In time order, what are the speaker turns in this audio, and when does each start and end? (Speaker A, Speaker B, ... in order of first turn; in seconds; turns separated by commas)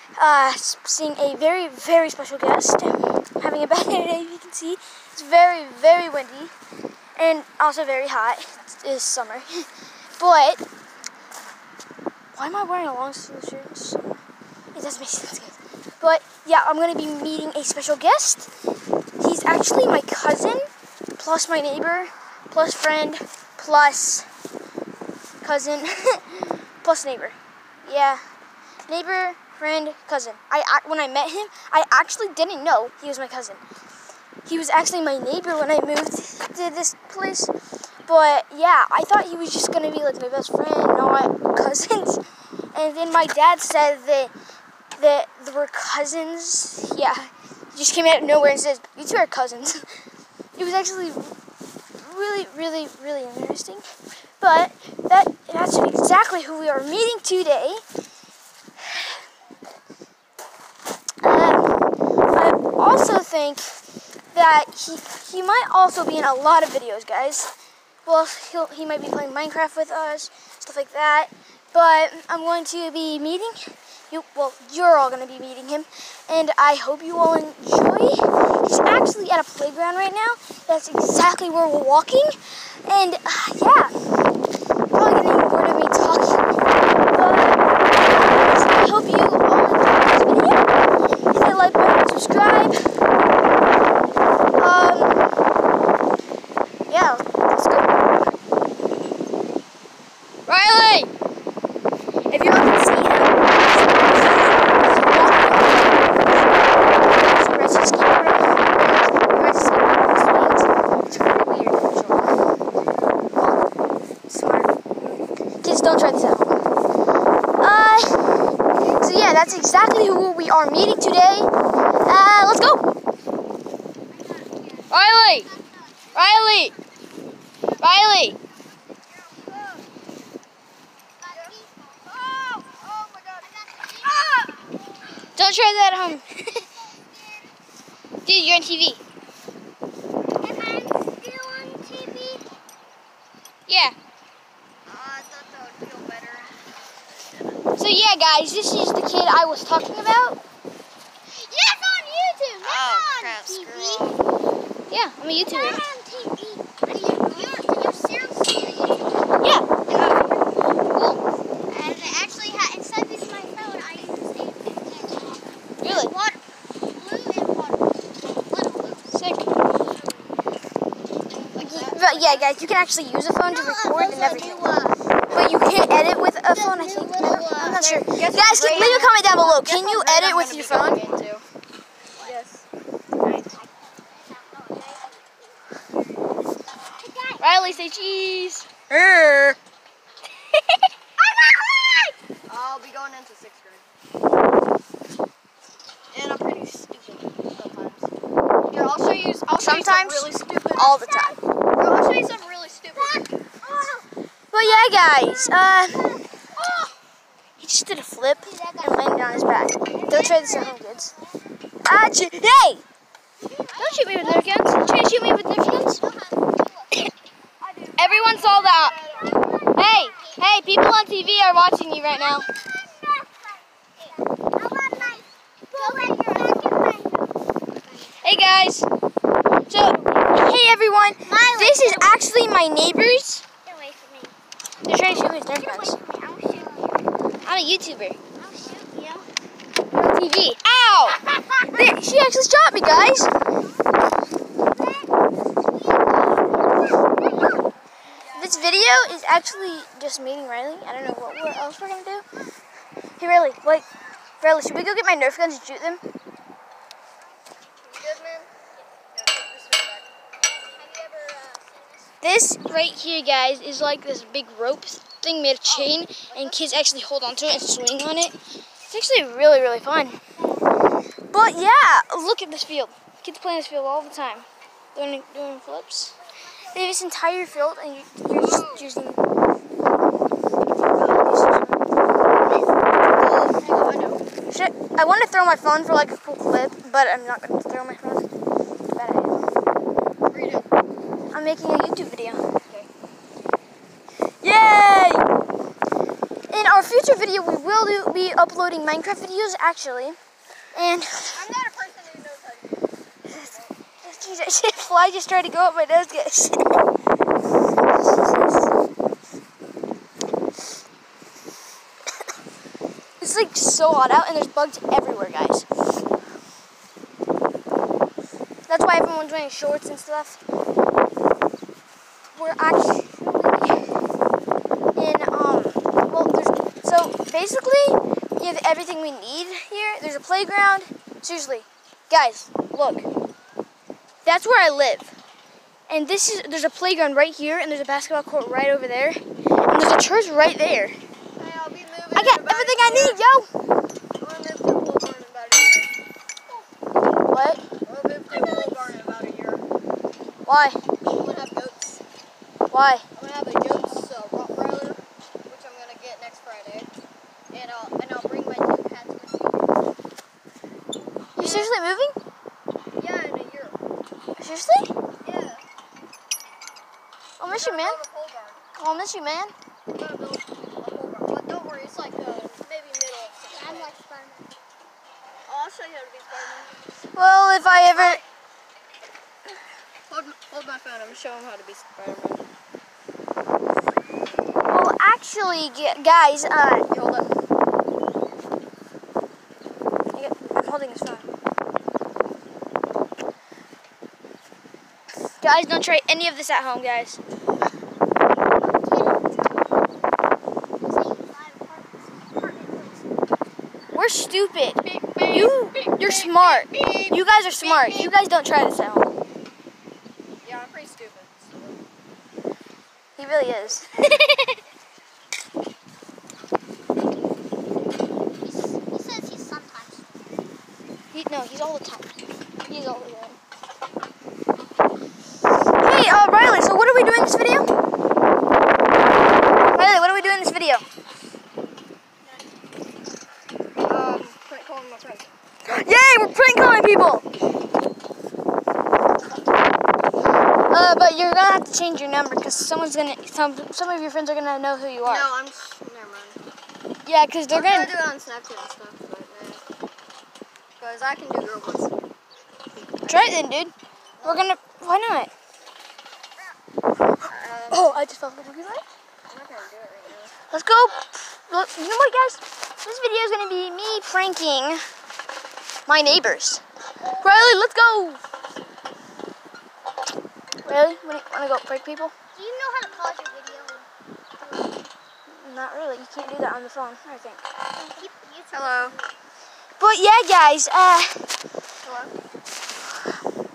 Speaker A: 0.2-6.5, Speaker A: 7.2-9.7, Speaker A: 10.2-10.6, Speaker A: 12.3-14.2, Speaker A: 14.8-18.5, Speaker A: 19.2-20.7, Speaker A: 21.2-24.3, Speaker A: 25.4-28.2, Speaker A: 28.9-33.6, Speaker A: 34.5-37.5, Speaker A: 38.1-42.2, Speaker A: 42.7-44.3, Speaker A: 45.0-49.9, Speaker A: 50.6-51.3, Speaker A: 52.0-53.9, Speaker A: 54.4-57.8, Speaker A: 61.2-63.7, Speaker A: 64.3-67.5, Speaker A: 68.1-73.6, Speaker A: 74.1-83.9, Speaker A: 84.9-86.4, Speaker A: 87.1-90.6, Speaker A: 91.3-92.8, Speaker A: 94.6-95.2, Speaker A: 96.9-98.1, Speaker A: 100.5-101.1, Speaker A: 102.3-112.4, Speaker A: 114.3-114.7, Speaker A: 115.6-116.6, Speaker A: 117.6-118.5, Speaker A: 119.0-121.5, Speaker A: 122.0-122.9, Speaker B: 124.1-128.4, Speaker A: 124.9-125.5, Speaker A: 126.1-126.8, Speaker A: 127.8-128.4, Speaker C: 129.3-129.8, Speaker B: 131.2-132.1, Speaker C: 132.1-133.5, Speaker B: 133.4-134.7, Speaker A: 135.3-136.7, Speaker B: 136.7-137.6, Speaker A: 138.2-139.0, Speaker B: 140.4-142.5, Speaker A: 143.7-144.0, Speaker C: 144.8-147.7, Speaker A: 147.8-150.4, Speaker B: 151.3-154.1, Speaker C: 152.6-154.2, Speaker A: 154.9-155.8, Speaker B: 155.4-159.3, Speaker A: 159.4-159.7, Speaker B: 159.9-160.3, Speaker C: 159.9-160.3, Speaker B: 161.7-169.1, Speaker A: 165.8-166.1, Speaker A: 169.1-169.5, Speaker C: 171.5-172.5, Speaker A: 171.6-174.7, Speaker B: 173.5-175.0, Speaker A: 175.3-181.1, Speaker B: 176.5-178.0, Speaker C: 177.6-181.4, Speaker C: 182.2-182.7, Speaker A: 183.2-183.5, Speaker B: 183.5-185.5, Speaker B: 186.9-187.8, Speaker A: 187.4-189.6, Speaker C: 192.5-193.9, Speaker C: 196.1-198.1, Speaker C: 198.7-201.0, Speaker A: 199.6-201.4, Speaker C: 201.8-203.3, Speaker B: 202.9-204.1, Speaker A: 204.5-206.1, Speaker B: 204.6-206.9, Speaker A: 207.6-211.2, Speaker B: 208.4-209.2, Speaker B: 209.8-211.4, Speaker A: 211.8-212.8, Speaker B: 213.4-217.1, Speaker A: 213.8-216.0, Speaker C: 217.6-219.6, Speaker A: 218.0-219.0, Speaker B: 219.0-220.8, Speaker A: 219.8-222.5, Speaker B: 222.1-228.3, Speaker C: 225.7-226.7, Speaker A: 228.2-228.9, Speaker A: 229.7-233.4, Speaker B: 231.2-232.2, Speaker B: 233.6-237.0, Speaker A: 234.8-236.0, Speaker A: 237.4-238.2, Speaker B: 238.4-239.3, Speaker A: 239.9-243.3, Speaker B: 244.7-246.6, Speaker A: 248.3-252.3, Speaker A: 253.2-253.9, Speaker A: 254.4-256.0, Speaker C: 257.8-258.5, Speaker C: 259.1-260.1, Speaker B: 260.4-262.1, Speaker A: 262.2-268.4, Speaker C: 265.9-266.7, Speaker A: 268.9-270.2, Speaker B: 270.4-270.7, Speaker A: 271.3-279.2, Speaker B: 276.2-277.0, Speaker C: 278.3-278.9, Speaker A: 280.9-281.8, Speaker C: 283.1-284.2, Speaker A: 284.5-288.3, Speaker A: 288.9-289.5, Speaker C: 290.3-290.7, Speaker A: 291.3-292.4, Speaker A: 294.4-295.3, Speaker A: 296.5-300.2, Speaker A: 300.7-301.4, Speaker C: 301.3-303.7, Speaker A: 304.0-306.8, Speaker A: 307.9-308.7, Speaker A: 313.2-315.7, Speaker A: 318.7-320.4, Speaker A: 322.3-323.9, Speaker A: 325.0-333.1, Speaker A: 334.2-335.1, Speaker A: 335.9-341.0, Speaker C: 341.4-343.2, Speaker A: 342.1-343.5, Speaker C: 344.2-345.9, Speaker A: 347.3-347.6, Speaker C: 347.9-349.6, Speaker B: 348.3-348.8, Speaker A: 350.5-350.8, Speaker C: 351.1-352.0, Speaker A: 352.7-353.0, Speaker C: 353.1-356.9, Speaker C: 357.5-359.7, Speaker A: 361.4-362.2, Speaker C: 361.4-361.7, Speaker C: 363.0-363.8, Speaker A: 364.4-364.9, Speaker C: 365.2-365.7, Speaker A: 367.4-368.0, Speaker C: 367.4-368.6, Speaker A: 368.8-369.5, Speaker C: 369.9-373.9, Speaker B: 373.5-374.6, Speaker C: 375.4-377.0, Speaker A: 377.1-378.2, Speaker C: 380.1-382.5, Speaker A: 384.7-386.9, Speaker C: 386.9-387.3, Speaker A: 390.1-391.3, Speaker A: 395.4-397.2, Speaker B: 398.6-399.5, Speaker B: 400.8-403.0, Speaker A: 403.9-409.1, Speaker C: 404.8-408.1, Speaker C: 410.4-411.8, Speaker A: 413.2-414.6, Speaker B: 418.4-420.4, Speaker A: 421.1-423.4, Speaker A: 425.8-427.7, Speaker A: 429.8-430.9, Speaker C: 433.8-435.3, Speaker A: 435.6-437.3, Speaker A: 440.7-445.3, Speaker C: 445.0-446.4, Speaker A: 447.1-447.9, Speaker C: 447.5-449.6, Speaker C: 450.8-452.1, Speaker C: 453.0-453.4, Speaker A: 453.1-453.7, Speaker C: 454.2-454.5, Speaker A: 454.2-455.3, Speaker C: 457.2-458.0, Speaker A: 457.7-458.8, Speaker C: 459.3-460.4, Speaker A: 460.5-464.8, Speaker A: 465.9-466.6, Speaker A: 467.2-468.2, Speaker A: 470.6-472.1, Speaker B: 472.4-473.9, Speaker B: 474.4-474.9, Speaker A: 475.3-477.5, Speaker B: 477.8-479.1, Speaker C: 478.5-479.0, Speaker A: 479.8-481.3, Speaker C: 481.8-482.1